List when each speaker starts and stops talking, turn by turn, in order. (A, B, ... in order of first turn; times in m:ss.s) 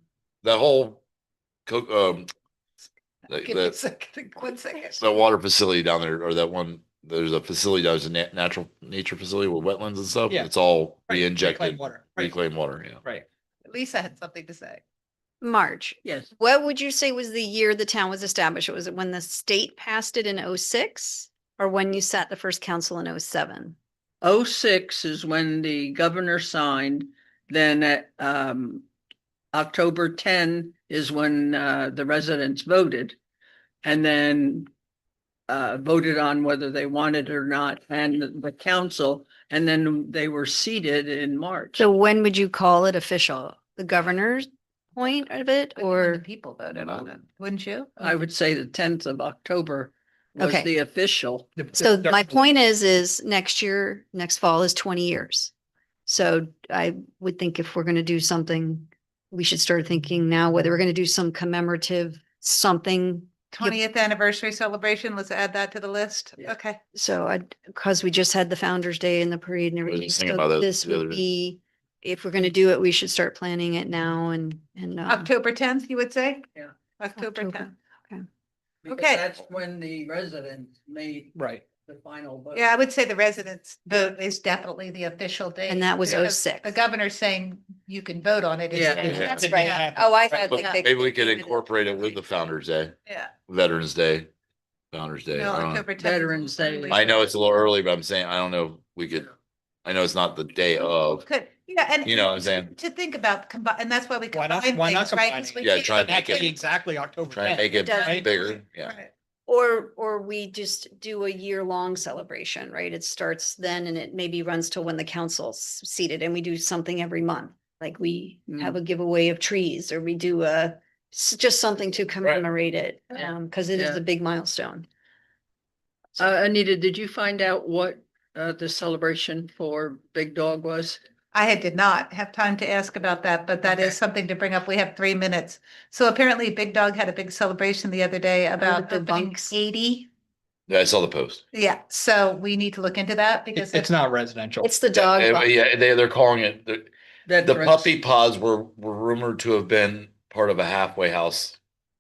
0:00.4-0:01.0 A
0:01.7-0:02.3 A
0:03.3-0:03.8 A
0:03.4-0:05.0 B
0:05.0-0:13.0 A
0:11.1-0:12.4 C
0:13.6-0:14.8 B
0:15.4-0:23.8 D
0:16.0-0:16.3 E
0:24.2-0:28.9 E
0:29.5-0:33.2 E
0:33.8-0:34.7 E
0:35.5-0:41.9 E
0:41.8-0:46.2 D
0:45.8-0:48.0 B
0:48.0-0:51.6 E
0:50.4-0:50.7 D
0:51.6-0:52.4 C
0:51.8-0:55.5 D
0:56.1-1:03.8 D
1:03.5-1:06.8 B
1:06.9-1:15.3 D
1:09.9-1:11.2 A
1:15.1-1:16.5 B
1:17.0-1:17.7 B
1:17.2-1:18.2 D
1:18.8-1:22.7 E
1:18.9-1:19.2 B
1:21.4-1:21.6 C
1:22.5-1:29.5 B
1:25.7-1:26.8 D
1:28.7-1:29.2 E
1:29.0-1:29.5 A
1:29.0-1:30.3 C
1:29.4-1:31.7 D
1:30.3-1:33.0 A
1:30.6-1:30.8 B
1:33.1-1:33.3 B
1:33.5-1:34.3 A
1:34.9-1:35.8 A
1:35.4-1:37.3 B
1:36.0-1:37.0 E
1:36.9-1:39.3 A
1:39.8-1:41.2 A
1:41.1-1:46.5 B
1:42.0-1:42.7 A
1:44.3-1:48.3 C
1:45.6-1:46.5 A
1:47.3-1:49.0 A
1:47.7-1:48.3 D
1:47.9-1:49.1 B
1:49.5-2:04.9 D
1:58.5-1:58.8 E
2:03.7-2:04.0 E
2:06.2-2:11.0 E
2:11.3-2:20.1 B
2:18.6-2:19.6 D
2:20.7-2:21.4 A
2:21.5-2:23.9 B
2:23.6-2:24.7 C
2:24.6-2:25.5 D
2:24.9-2:26.9 A
2:27.3-2:27.9 E
2:27.4-2:31.6 A